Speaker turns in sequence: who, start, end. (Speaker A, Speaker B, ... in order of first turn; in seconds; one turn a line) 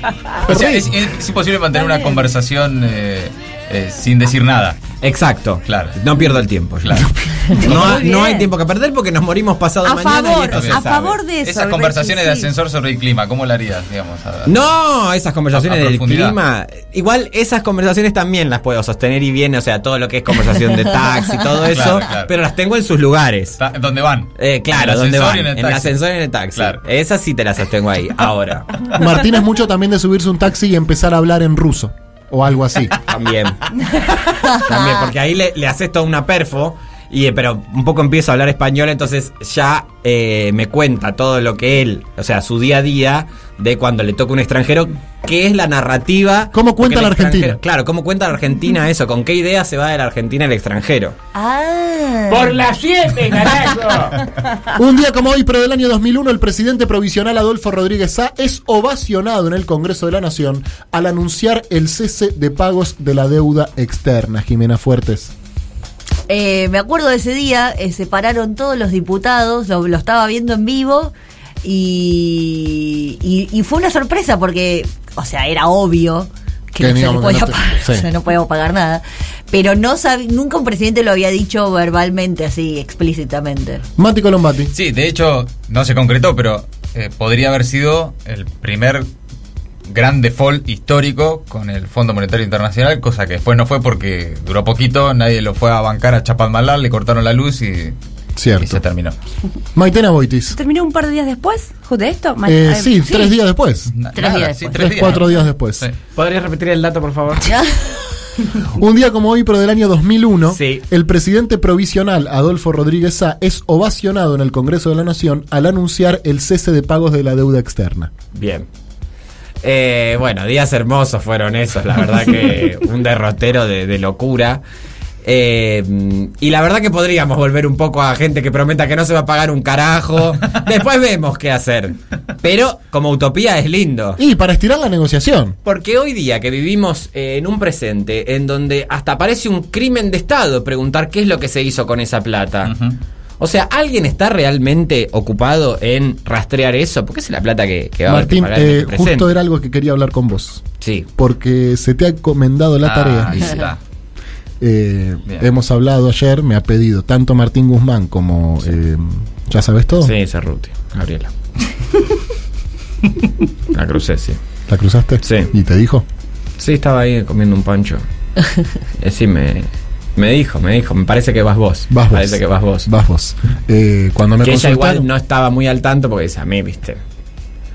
Speaker A: 0.4-4.8
Speaker B: 0.5-0.9
Speaker C: 5.0-11.2
Speaker A: 5.7-6.0
Speaker A: 6.8-7.1
Speaker D: 7.6-8.5
Speaker A: 7.6-8.0
Speaker D: 9.8-12.5
Speaker A: 10.4-10.8
Speaker A: 11.4-14.6
Speaker C: 14.5-23.6
Speaker A: 15.5-16.4
Speaker A: 21.7-22.3
Speaker A: 23.6-25.9
Speaker C: 24.4-28.8
Speaker A: 26.6-26.8
Speaker B: 28.9-33.0
Speaker C: 33.1-33.6
Speaker C: 34.5-51.1
Speaker E: 34.7-35.1
Speaker B: 46.5-47.6
Speaker E: 51.4-52.6
Speaker C: 52.3-54.2
Speaker B: 54.7-65.3
Speaker E: 66.3-83.8
Speaker B: 76.8-78.1
Speaker B: 84.0-84.7
Speaker A: 84.7-89.1
Speaker A: 89.9-98.0
Speaker B: 98.4-98.8
Speaker A: 98.6-99.2
Speaker B: 99.8-100.6
Speaker D: 100.5-103.0
Speaker B: 102.5-103.9
Speaker E: 103.0-103.3
Speaker A: 103.9-105.9
Speaker E: 104.1-105.3
Speaker B: 104.8-105.8
Speaker C: 106.2-107.5
Speaker E: 107.5-108.0
Speaker B: 108.7-118.1
Speaker C: 110.5-110.8
Speaker C: 118.3-118.7
Speaker C: 119.6-124.6
Speaker C: 125.2-134.2
Speaker B: 134.2-135.6
Speaker C: 135.7-142.7
Speaker A: 142.6-143.0
Speaker C: 143.4-149.3
Speaker B: 148.1-150.6
Speaker C: 150.8-151.1
Speaker B: 151.2-153.7
Speaker A: 152.8-153.8
Speaker B: 154.6-160.2
Speaker C: 160.0-161.3
Speaker C: 163.7-164.4
Speaker B: 164.7-166.1
Speaker C: 165.2-165.5
Speaker C: 166.6-168.0
Speaker C: 169.0-172.9
Speaker B: 171.9-175.1
Speaker C: 174.4-177.0